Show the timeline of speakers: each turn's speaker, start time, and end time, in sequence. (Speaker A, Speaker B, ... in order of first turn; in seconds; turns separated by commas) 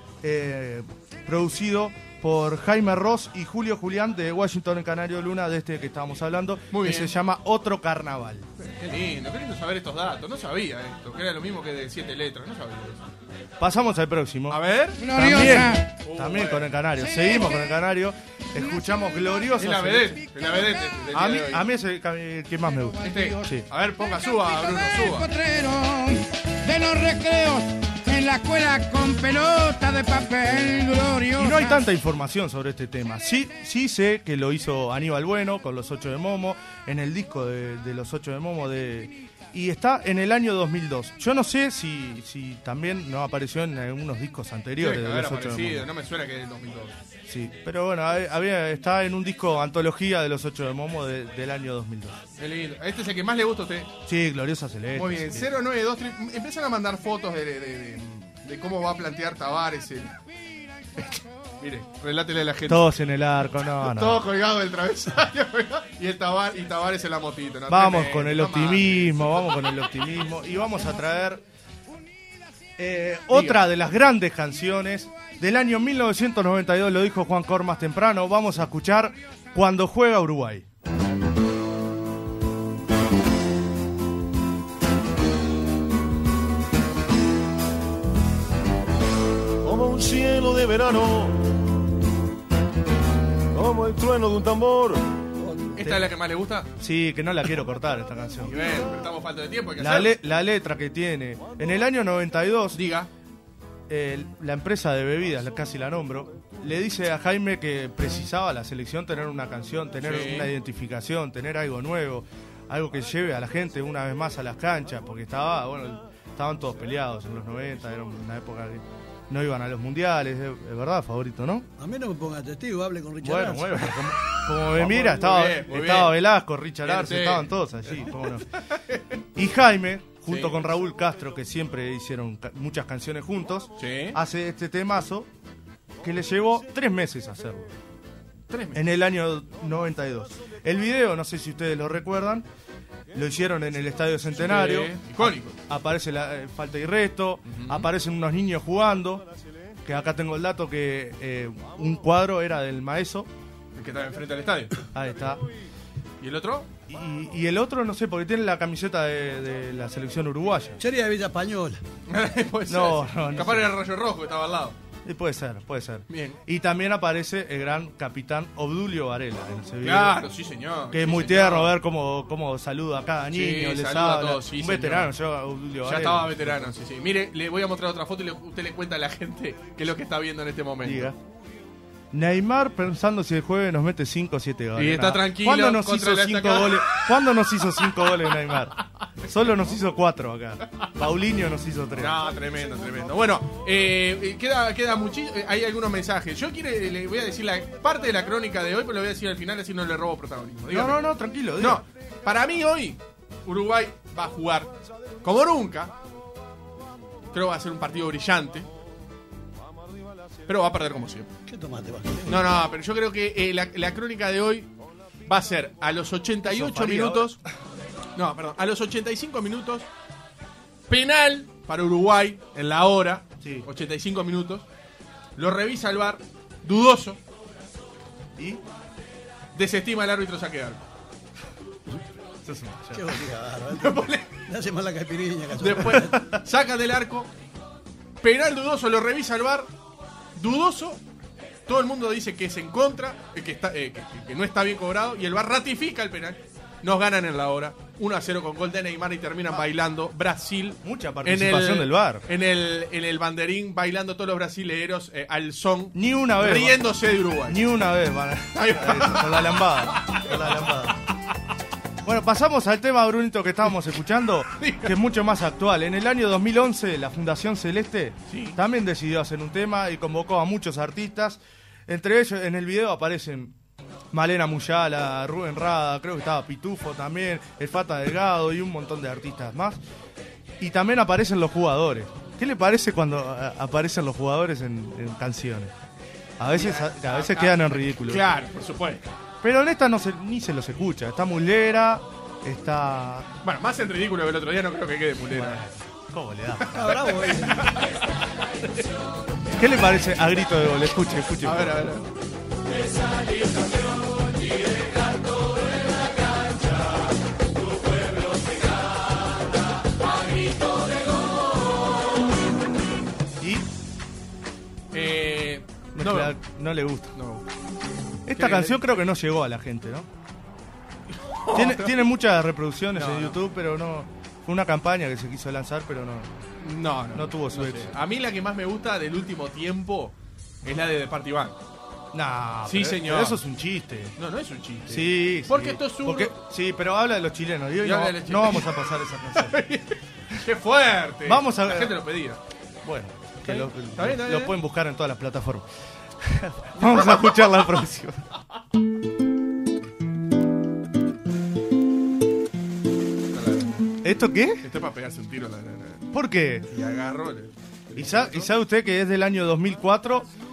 Speaker A: 0.2-8.5, Speaker B: 6.7-7.1, Speaker B: 8.6-13.0, Speaker A: 13.6-20.2, Speaker B: 14.5-16.7, Speaker C: 15.0-15.9, Speaker C: 17.0-17.6, Speaker B: 19.6-21.6, Speaker A: 21.1-23.6, Speaker C: 23.0-23.4, Speaker B: 23.0-25.3, Speaker C: 24.7-31.8, Speaker A: 31.4-45.9, Speaker B: 44.8-46.9, Speaker A: 47.3-52.2, Speaker B: 52.4-53.9, Speaker A: 54.1-55.5, Speaker B: 54.9-60.1, Speaker B: 61.0-62.9, Speaker A: 62.7-64.2, Speaker B: 63.8-69.5, Speaker A: 67.7-71.4, Speaker A: 72.8-80.7, Speaker B: 73.3-73.6, Speaker D: 89.6-91.5, Speaker D: 93.5-95.0, Speaker B: 95.8-96.7, Speaker A: 96.8-98.7, Speaker B: 98.4-100.1, Speaker A: 99.8-102.8, Speaker B: 102.7-103.1, Speaker A: 103.9-121.7, Speaker B: 110.0-110.5, Speaker E: 121.8-123.9, Speaker A: 123.2-128.5, Speaker B: 124.7-126.2, Speaker B: 126.8-129.2, Speaker A: 129.3-135.3, Speaker B: 130.3-130.6, Speaker B: 133.8-134.2, Speaker A: 136.0-137.7, Speaker B: 138.5-138.8, Speaker A: 138.7-142.5, Speaker A: 143.1-149.2, Speaker B: 144.4-145.6, Speaker B: 147.5-147.9, Speaker A: 149.8-153.3, Speaker B: 153.8-154.8, Speaker A: 154.9-155.4, Speaker B: 156.2-156.7, Speaker A: 156.9-160.8, Speaker E: 160.8-161.8, Speaker B: 162.1-164.8, Speaker A: 162.7-163.7, Speaker A: 165.1-170.2, Speaker B: 166.1-166.4, Speaker B: 169.8-171.7, Speaker A: 170.9-176.7, Speaker B: 173.3-175.1, Speaker B: 175.8-181.1, Speaker A: 180.8-181.2, Speaker A: 182.1-192.2, Speaker B: 184.8-187.1, Speaker B: 192.0-201.0, Speaker A: 200.7-201.8, Speaker B: 201.6-205.9, Speaker B: 207.3-208.7, Speaker B: 210.5-211.3, Speaker E: 211.5-212.5, Speaker B: 212.3-214.7, Speaker B: 215.3-217.4, Speaker A: 216.4-217.4, Speaker B: 218.2-219.9, Speaker B: 220.9-224.7, Speaker A: 223.4-223.7, Speaker B: 225.4-227.2, Speaker A: 228.4-228.6, Speaker B: 229.6-230.9, Speaker A: 232.4-233.2, Speaker E: 232.9-236.2, Speaker B: 233.7-234.3, Speaker B: 235.6-237.3, Speaker B: 238.2-239.7, Speaker B: 240.4-241.0, Speaker B: 241.7-257.6, Speaker A: 250.8-252.3, Speaker A: 255.9-256.9, Speaker A: 257.4-261.0, Speaker B: 258.6-260.8, Speaker A: 262.0-273.6, Speaker B: 264.6-264.9, Speaker B: 268.3-268.6, Speaker A: 274.1-279.8, Speaker A: 280.6-285.7, Speaker A: 286.4-288.3, Speaker B: 286.5-289.0, Speaker A: 289.4-293.3, Speaker B: 293.4-295.6, Speaker A: 295.3-297.1, Speaker B: 296.6-298.9, Speaker E: 296.7-297.7, Speaker A: 299.5-302.0, Speaker B: 301.4-302.1, Speaker A: 313.4-313.7, Speaker B: 314.9-316.4, Speaker A: 315.9-317.1, Speaker B: 317.1-317.4, Speaker A: 318.3-320.1, Speaker B: 318.4-318.8, Speaker B: 321.3-322.0, Speaker A: 321.5-326.3, Speaker B: 322.9-323.4, Speaker B: 326.6-331.6, Speaker A: 327.1-327.9, Speaker A: 332.1-334.1, Speaker B: 332.6-333.4, Speaker B: 334.2-336.4, Speaker A: 334.9-339.6, Speaker B: 337.8-338.8, Speaker B: 339.4-342.4, Speaker A: 341.2-342.0, Speaker A: 342.8-345.6, Speaker B: 343.4-344.6, Speaker A: 346.2-348.2, Speaker B: 346.8-347.6, Speaker B: 353.3-353.9, Speaker A: 354.0-354.6, Speaker B: 354.6-356.1, Speaker A: 356.1-356.7, Speaker B: 356.7-358.5, Speaker A: 357.9-360.3